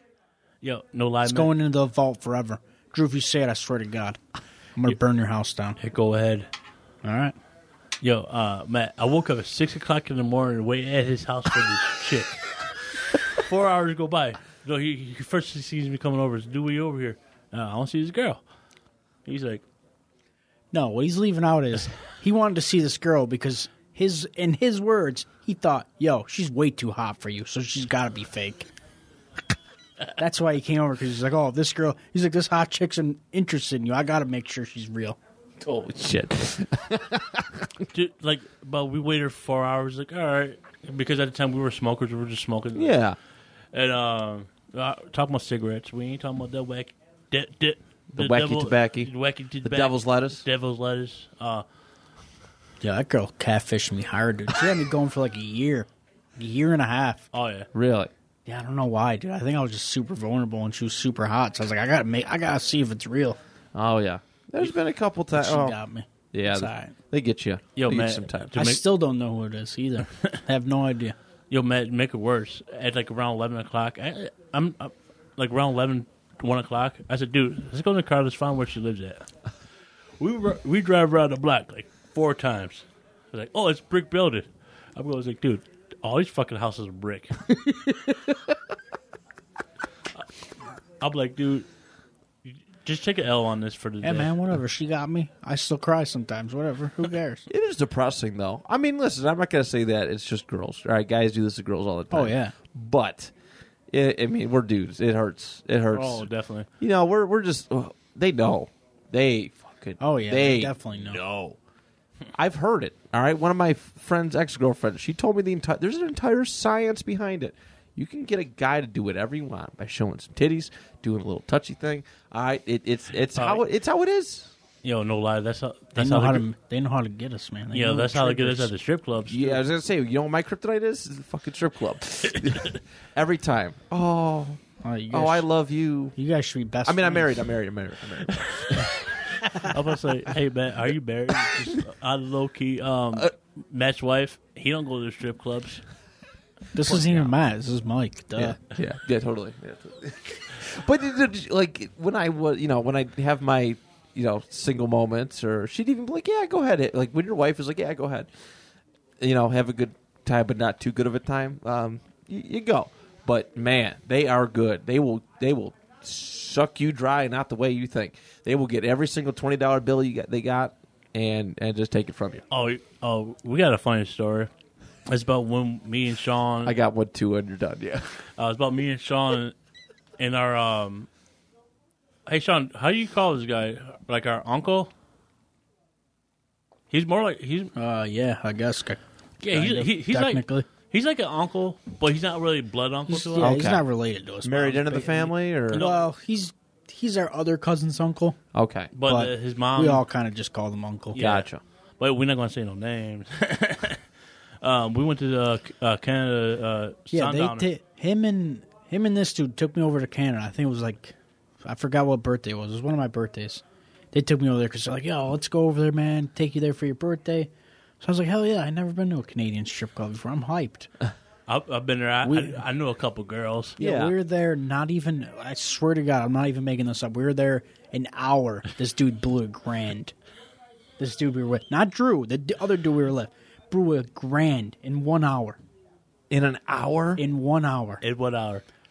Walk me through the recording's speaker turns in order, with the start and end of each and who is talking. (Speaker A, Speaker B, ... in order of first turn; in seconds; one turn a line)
Speaker A: 0.6-1.5
Speaker B: 1.2-4.2
Speaker B: 4.8-5.8
Speaker A: 5.8-6.5
Speaker B: 7.0-7.4
Speaker A: 8.0-12.5
Speaker A: 13.3-18.4
Speaker A: 19.2-19.6
Speaker B: 20.7-28.7
Speaker B: 30.2-35.2
Speaker C: 35.6-37.9
Speaker A: 37.9-43.0
Speaker C: 42.8-43.2
Speaker A: 43.7-51.6
Speaker C: 48.1-49.1
Speaker C: 49.6-50.4
Speaker B: 52.8-57.3
Speaker A: 57.3-57.7
Speaker C: 57.7-58.1
Speaker B: 58.5-63.4
Speaker C: 63.8-65.8
Speaker B: 65.3-66.9
Speaker C: 66.3-68.6
Speaker A: 67.8-68.8
Speaker B: 68.5-71.2
Speaker A: 71.5-79.3
Speaker A: 80.2-87.5
Speaker A: 91.0-91.7
Speaker A: 92.5-94.4
Speaker B: 94.0-97.5
Speaker C: 97.5-103.3
Speaker B: 102.1-102.6
Speaker C: 103.9-106.3
Speaker A: 105.9-106.7
Speaker C: 106.8-111.6
Speaker B: 110.0-111.2
Speaker C: 112.3-124.5
Speaker A: 123.4-123.6
Speaker A: 124.8-126.5
Speaker B: 126.0-128.7
Speaker A: 127.7-129.6
Speaker C: 129.3-134.6
Speaker B: 134.8-135.5
Speaker C: 135.1-136.2
Speaker B: 136.2-137.3
Speaker C: 136.8-139.0
Speaker A: 139.5-145.8
Speaker B: 146.8-148.6
Speaker A: 146.9-147.3
Speaker C: 148.4-158.3
Speaker C: 159.2-172.4
Speaker A: 172.5-174.5
Speaker A: 175.1-176.8
Speaker C: 176.6-178.2
Speaker A: 178.4-179.6
Speaker A: 180.2-181.1
Speaker A: 182.3-184.9
Speaker A: 186.9-187.7
Speaker B: 187.8-190.7
Speaker A: 189.4-193.6
Speaker B: 193.1-198.4
Speaker C: 193.4-193.8
Speaker C: 194.4-195.9
Speaker A: 195.7-196.1
Speaker C: 198.5-198.9
Speaker A: 198.9-200.0
Speaker B: 199.1-201.2
Speaker A: 201.1-204.0
Speaker C: 201.2-201.6
Speaker A: 204.6-207.7
Speaker B: 207.1-217.5
Speaker B: 218.0-220.9
Speaker A: 221.5-223.8
Speaker B: 222.2-222.6
Speaker C: 223.8-224.2
Speaker B: 223.8-230.1
Speaker B: 231.0-235.6
Speaker C: 236.3-237.2
Speaker B: 237.2-238.0
Speaker A: 238.0-238.6